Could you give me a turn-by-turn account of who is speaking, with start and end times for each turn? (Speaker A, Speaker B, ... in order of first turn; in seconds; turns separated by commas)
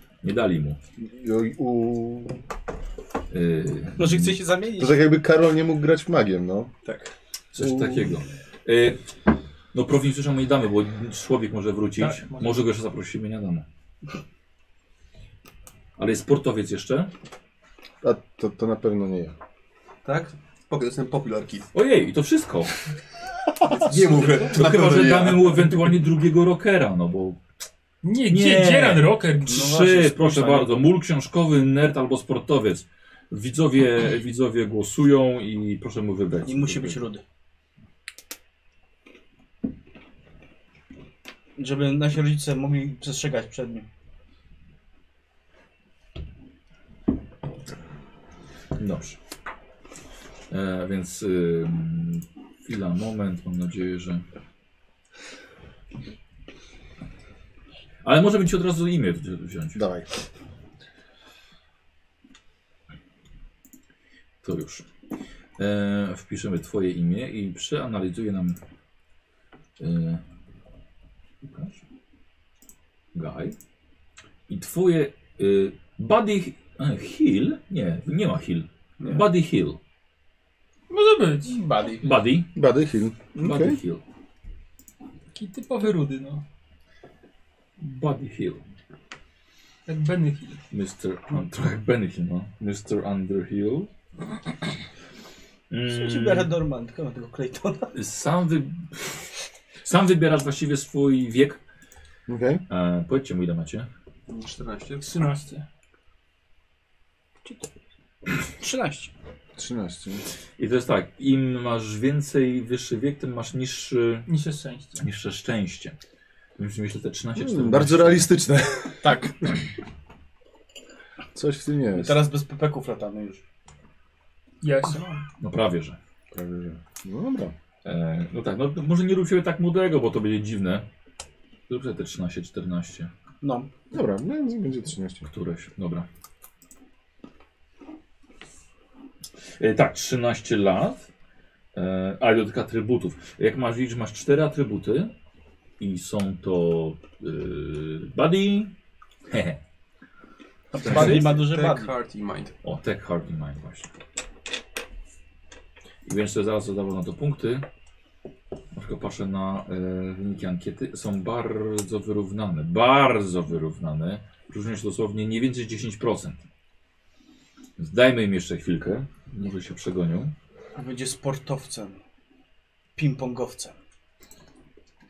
Speaker A: 0.2-0.8, Speaker B: 1.0-2.4, Speaker A: 3.3-4.4, Speaker C: 4.0-5.0, Speaker B: 4.8-6.7, Speaker A: 7.5-9.0, Speaker B: 7.6-8.0, Speaker A: 9.7-13.6, Speaker D: 12.0-12.6, Speaker A: 16.0-17.1, Speaker B: 18.0-19.3, Speaker E: 20.0-21.7, Speaker A: 21.7-22.7, Speaker E: 23.6-25.8, Speaker A: 23.9-27.4, Speaker D: 28.0-29.7, Speaker A: 28.3-37.0, Speaker C: 29.4-30.8, Speaker C: 36.4-37.2, Speaker C: 41.6-43.9, Speaker A: 48.8-49.2, Speaker A: 50.5-54.2, Speaker A: 58.0-59.8, Speaker B: 59.7-60.1, Speaker A: 64.4-64.8, Speaker A: 65.6-68.6, Speaker A: 69.8-70.2, Speaker A: 71.4-71.8, Speaker A: 73.1-73.5, Speaker A: 74.5-79.8, Speaker D: 80.9-81.6, Speaker C: 81.5-82.1, Speaker A: 82.0-82.5, Speaker B: 82.5-83.8, Speaker A: 83.3-84.0, Speaker D: 85.3-86.4, Speaker A: 87.8-88.6, Speaker D: 89.8-90.6, Speaker A: 90.7-93.9, Speaker A: 95.7-96.5, Speaker C: 95.9-97.9, Speaker A: 97.9-99.2, Speaker A: 99.8-101.6, Speaker B: 102.3-102.6, Speaker A: 102.7-103.9, Speaker E: 104.3-105.1, Speaker D: 105.0-105.6, Speaker C: 108.5-109.1, Speaker B: 109.6-110.2, Speaker A: 110.6-114.3, Speaker D: 114.3-115.0, Speaker A: 115.0-116.0, Speaker A: 116.6-118.3, Speaker B: 117.3-119.3, Speaker C: 119.0-119.4, Speaker B: 121.3-122.2, Speaker C: 121.9-123.4, Speaker D: 124.6-125.2, Speaker A: 125.4-126.0, Speaker B: 126.3-127.5, Speaker A: 127.8-130.8, Speaker A: 131.7-133.1, Speaker C: 133.4-133.7, Speaker B: 133.9-135.3, Speaker A: 135.3-136.1, Speaker A: 139.6-141.0, Speaker A: 141.7-145.1, Speaker A: 145.8-148.7, Speaker A: 149.3-149.6, Speaker C: 150.7-151.9, Speaker A: 150.8-151.3, Speaker E: 150.8-152.5, Speaker A: 152.6-153.9, Speaker A: 156.0-157.6, Speaker A: 158.7-166.4, Speaker A: 167.8-170.3, Speaker C: 170.8-172.0, Speaker C: 172.9-173.7